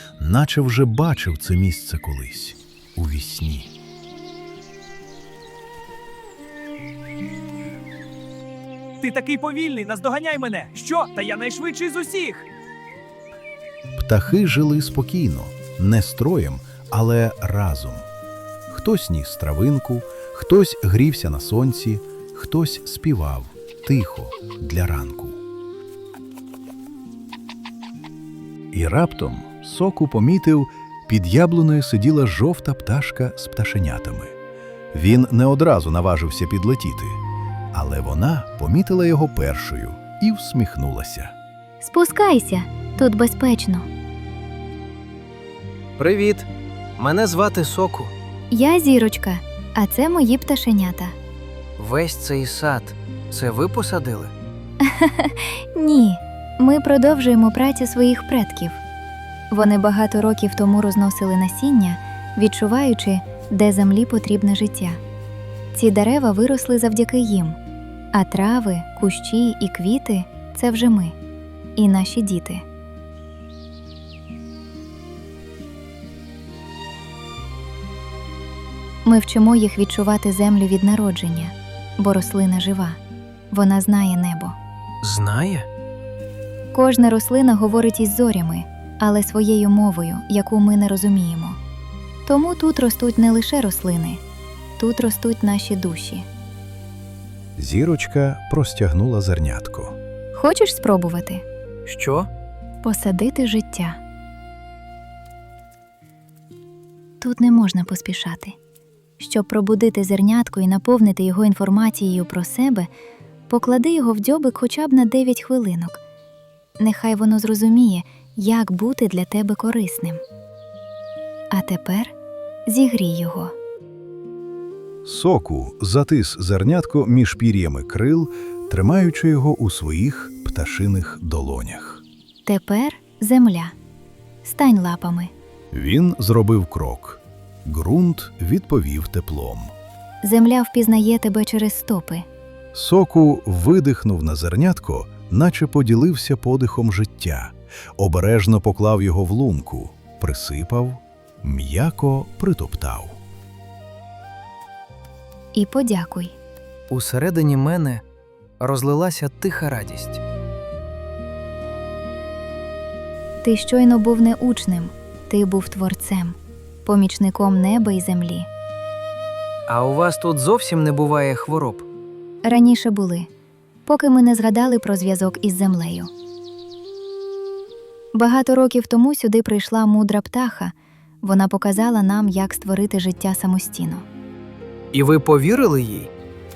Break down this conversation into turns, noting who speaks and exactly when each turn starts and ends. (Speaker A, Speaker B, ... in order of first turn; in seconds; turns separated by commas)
Speaker A: 0.2-3.7, Speaker B: 9.0-12.5, Speaker A: 14.0-18.1, Speaker A: 18.7-25.4, Speaker A: 28.7-34.3, Speaker A: 34.9-37.2, Speaker A: 37.7-41.3, Speaker C: 41.8-43.9, Speaker D: 46.0-48.1, Speaker C: 48.5-51.1, Speaker D: 51.8-54.3, Speaker C: 54.8-58.8, Speaker C: 59.5-65.0, Speaker C: 65.7-67.6, Speaker C: 68.1-71.2, Speaker C: 71.8-72.6, Speaker C: 79.0-83.0, Speaker C: 83.5-84.6, Speaker D: 85.0-85.7, Speaker C: 86.7-91.6, Speaker C: 92.3-94.2, Speaker C: 94.8-96.3, Speaker A: 97.6-100.0, Speaker C: 100.3-101.4, Speaker D: 101.9-102.3, Speaker C: 102.8-104.0, Speaker C: 107.2-108.6, Speaker C: 109.2-112.9, Speaker C: 113.5-116.0, Speaker C: 116.8-120.2, Speaker C: 121.5-122.1, Speaker C: 122.7-123.5, Speaker A: 125.0-132.0, Speaker C: 132.5-133.8, Speaker C: 134.4-135.3, Speaker A: 135.7-139.7, Speaker C: 140.2-142.3, Speaker A: 142.7-153.2, Speaker C: 155.5-156.4, Speaker D: 156.9-158.0, Speaker D: 158.6-160.2, Speaker C: 163.4-168.5, Speaker D: 169.7-171.9, Speaker C: 172.4-173.3, Speaker C: 173.9-176.1, Speaker C: 178.1-184.1, Speaker D: 184.9-186.1